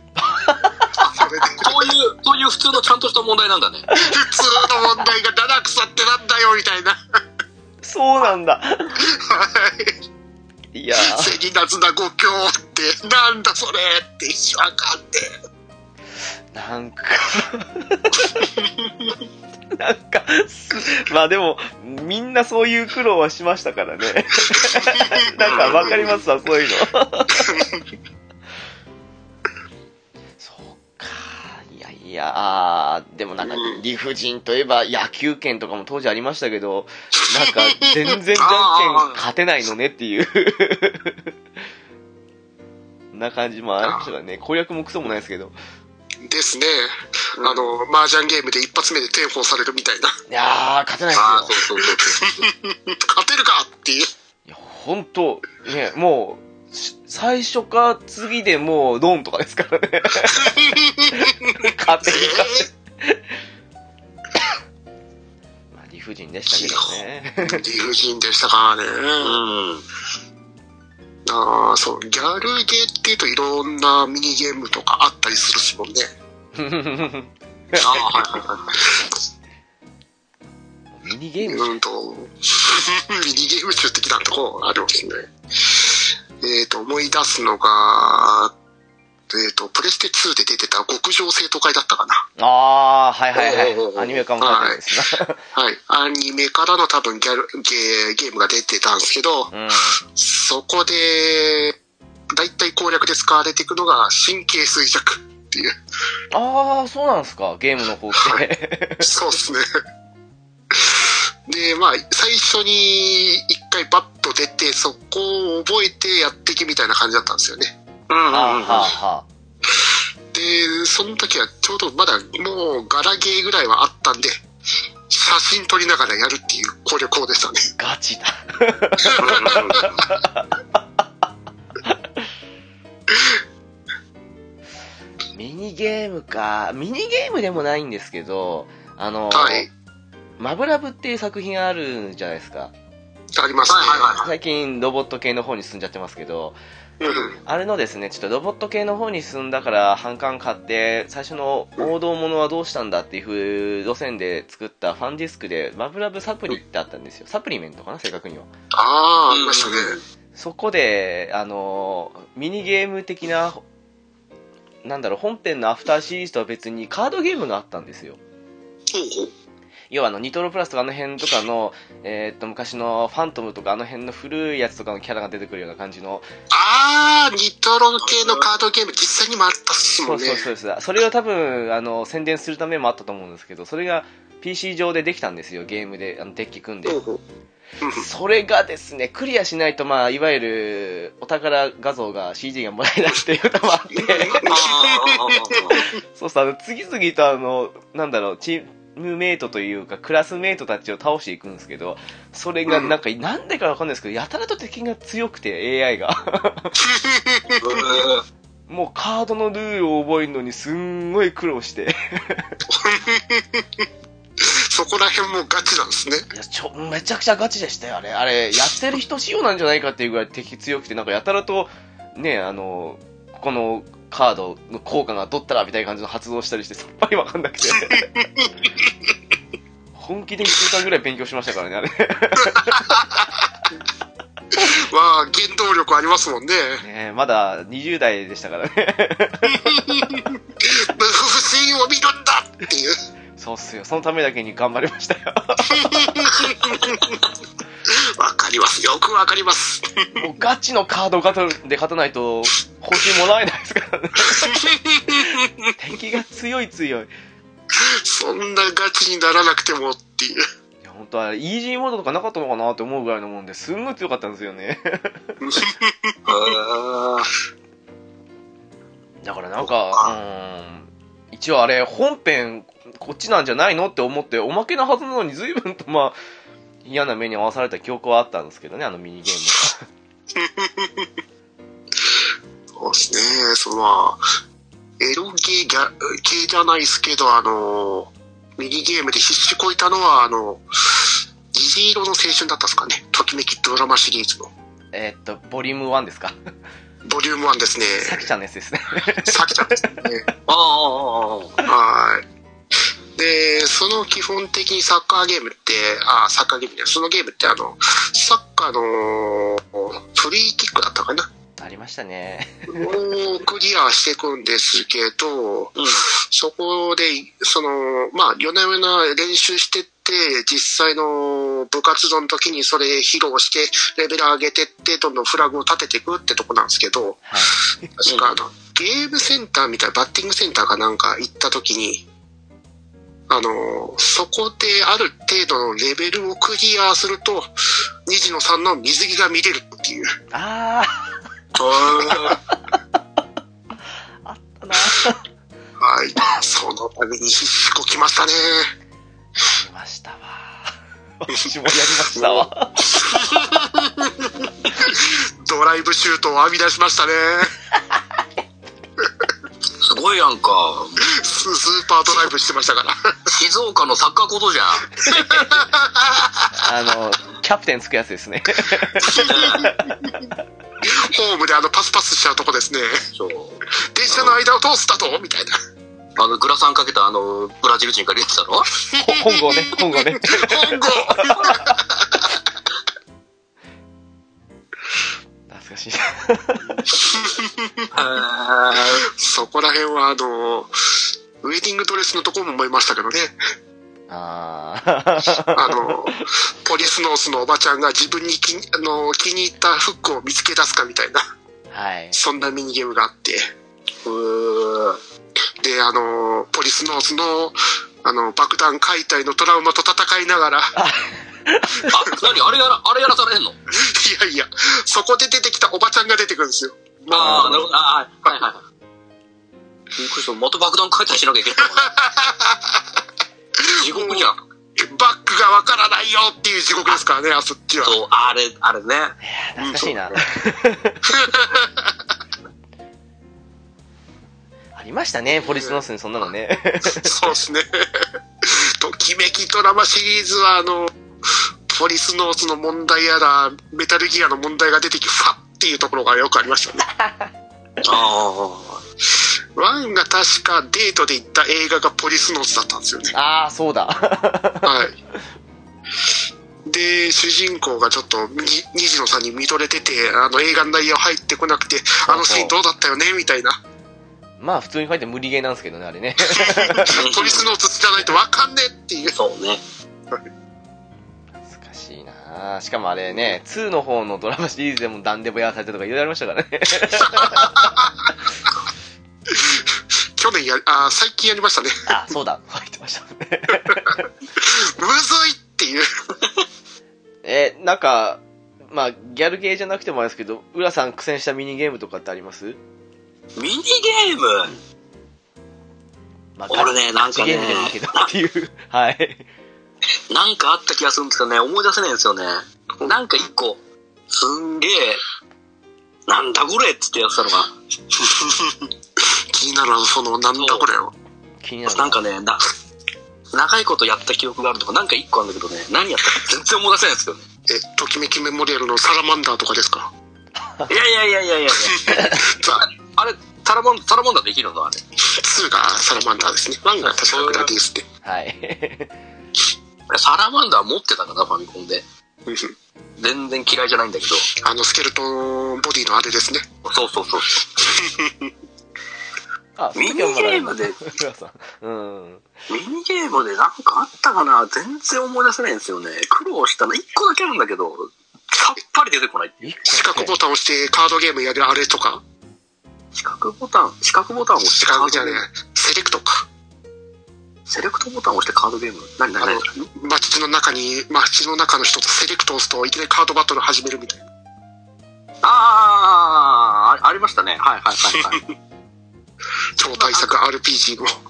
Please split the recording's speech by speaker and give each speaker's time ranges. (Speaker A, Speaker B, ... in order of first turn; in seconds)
Speaker A: 0.2-1.1, 7.8-9.1, 10.7-11.4, 16.5-18.5, 19.8-27.7, 30.4-41.3, 43.1-45.5, 50.3-51.6, 54.5-63.2, 65.7-67.6, 76.5-78.3, 81.0-81.8, 92.4-95.4, 99.5-100.0, 106.3-109.1, 118.3-119.3, 127.8-130.8, 131.8-132.2, 135.3-139.7, 140.4-142.7, 144.2-146.6, 147.4-158.5, 160.4-163.6, 164.8-168.2, 169.9-176.3, 180.0-187.0, 187.9-194.5, 195.7-206.8, 208.7-212.6, 216.3-228.2, 230.0-233.1, 236.8-240.1, 243.4-246.8, 250.2-254.6, 255.8-257.1, 260.8-265.3, 269.2-276.2, 276.8-279.8, 294.9-296.4, 298.0-299.9, 311.6-313.0, 327.3-327.6, 340.3-341.1, 342.0-342.8, 344.2-345.2, 349.4-353.0, 366.6-370.2, 379.0-381.6, 385.5-386.6, 394.1-396.2, 401.7-402.2, 410.8-412.2, 417.2-417.6, 429.2-431.1, 434.8-437.3, 447.0-447.3, 453.1-454.8, 462.1-462.6, 464.4-467.0, 471.4-477.8, 481.9-484.0, 487.2-492.6, 496.4-499.2, 511.4-512.0, 520.4-520.7, 521.9-522.3, 528.0-528.9, 539.6-542.3, 549.4-550.2
Speaker B: 1.1-1.9, 4.0-7.0, 9.0-9.9, 11.0-15.3, 18.6-19.1, 24.6-26.1, 27.4-27.8, 33.4-33.8, 37.4-38.1, 46.2-50.2, 51.2-54.1, 60.3-61.5, 62.1-62.7, 66.5-69.4, 71.3-76.1, 81.5-88.5, 89.3-92.3, 94.4-94.8, 95.5-99.5, 100.1-101.8, 102.3-105.7, 108.2-108.4, 109.0-109.7, 110.7-117.8, 120.3-124.4, 125.1-127.7, 129.0-129.9, 133.1-133.4, 139.3-139.7, 143.3-144.2, 147.0-147.4, 158.7-160.0, 168.9-169.3, 176.5-180.5, 186.9-187.2, 187.8-188.1, 193.9-195.8, 202.7-202.9, 206.8-207.9, 212.7-213.8, 214.4-216.3, 228.0-228.9, 232.4-233.3, 234.5-236.8, 239.5-243.0, 245.7-247.2, 247.9-250.2, 254.3-255.5, 257.7-260.4, 265.4-266.6, 280.4-281.1, 282.8-284.2, 285.0-294.5, 297.1-298.3, 299.2-300.3, 301.7-302.3, 303.2-311.3, 312.7-327.2, 328.0-332.1, 333.3-337.5, 338.1-340.1, 341.6-342.3, 345.8-348.7, 352.1-357.5, 359.0-359.3, 361.0-363.0, 365.0-366.6, 369.0-370.1, 370.8-373.0, 373.9-375.6, 378.9-382.3, 387.0-387.9, 388.7-390.7, 391.4-393.4, 395.5-401.2, 402.1-403.5, 405.6-410.8, 413.8-417.7, 421.6-422.8, 423.6-428.0, 429.6-430.2, 431.1-431.9, 435.4-435.8, 437.0-437.7, 438.4-440.9, 441.7-446.9, 449.6-453.1, 454.6-454.9, 456.7-463.6, 466.4-469.2, 476.9-478.1, 479.3-481.9, 483.5-485.9, 508.0-508.7, 509.3-510.9, 517.5-519.9, 521.7-522.7, 525.1-527.9, 532.3-532.5, 534.4-536.5, 537.6-538.3, 549.7-552.0, 554.4-556.3, 559.2-564.0, 569.6-570.9
Speaker C: 1.6-3.9, 25.4-26.0, 38.4-39.2, 47.4-47.8, 51.1-52.3, 69.2-69.8, 77.8-78.7, 93.3-94.2, 118.1-118.9, 129.2-129.9, 143.7-144.3, 159.3-160.0, 178.0-178.5, 194.4-195.8, 207.6-208.2, 266.3-267.3, 300.5-301.6, 315.8-316.1, 328.1-328.4, 342.0-342.4, 359.8-361.1, 363.3-365.0, 369.3-369.7, 373.1-374.4, 376.2-378.7, 387.9-389.1, 404.0-405.0, 411.9-413.6, 417.1-418.6, 420.0-421.9, 423.8-424.4, 427.8-429.2, 447.8-448.8, 466.9-467.5, 469.1-469.6, 493.4-494.5, 496.5-498.1, 500.1-503.6, 504.1-505.0, 506.1-507.5, 510.4-510.7, 511.7-512.5, 513.3-517.2, 520.7-524.8, 526.9-527.5, 529.9-531.8, 533.0-534.3, 536.6-537.4, 539.8-540.8, 542.5-549.4, 553.0-555.2, 557.5-559.5, 565.2-568.2, 569.7-570.1